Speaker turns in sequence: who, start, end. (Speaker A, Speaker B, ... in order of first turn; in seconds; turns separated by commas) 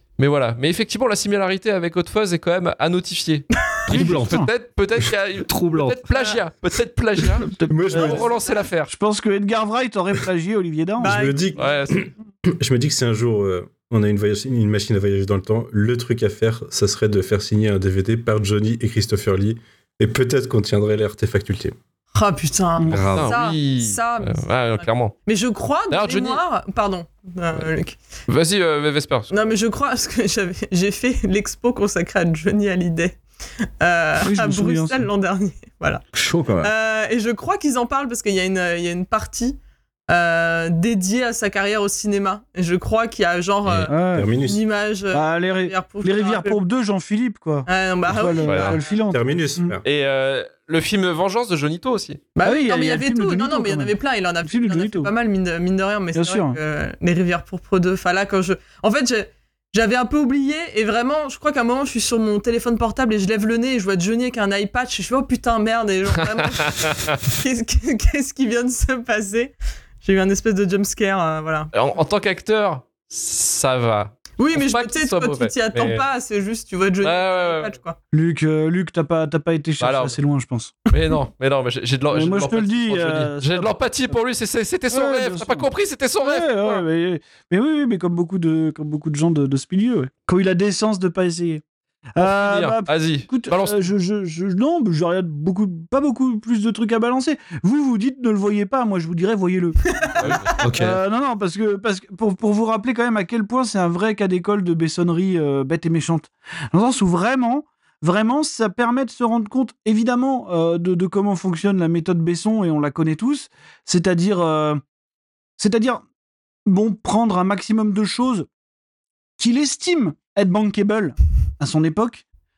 Speaker A: 0.2-8.9, Speaker B: 3.9-4.4, Speaker C: 3.9-4.5, Speaker B: 5.4-6.0, Speaker C: 7.4-8.2, Speaker D: 7.7-8.3, Speaker C: 8.9-11.2, Speaker E: 11.0-11.6, Speaker D: 11.0-12.1, Speaker A: 11.6-12.1, Speaker D: 12.6-21.7, Speaker E: 22.1-27.9, Speaker B: 22.9-23.4, Speaker A: 22.9-25.1, Speaker A: 25.9-26.4, Speaker A: 28.3-29.3, Speaker E: 29.3-33.2, Speaker E: 33.8-36.0, Speaker C: 34.2-35.1, Speaker B: 36.1-36.7, Speaker E: 36.6-39.6, Speaker E: 40.1-46.6, Speaker C: 43.9-44.3, Speaker D: 44.1-44.6, Speaker C: 45.1-49.8, Speaker E: 47.7-48.8, Speaker A: 48.4-48.8, Speaker D: 49.1-49.8, Speaker A: 49.8-52.2, Speaker E: 52.4-71.7, Speaker C: 52.4-55.1, Speaker C: 56.1-56.6, Speaker A: 66.2-67.2, Speaker A: 71.7-76.0, Speaker E: 74.4-78.0, Speaker A: 77.0-77.7, Speaker C: 78.1-80.7, Speaker A: 79.8-80.2, Speaker A: 80.9-86.8, Speaker C: 82.1-83.8, Speaker C: 84.9-85.7, Speaker C: 86.2-91.6, Speaker C: 92.2-114.8, Speaker A: 92.2-93.9, Speaker A: 100.2-100.5, Speaker B: 100.6-101.0, Speaker C: 115.6-116.0, Speaker C: 116.7-118.5, Speaker C: 119.4-122.2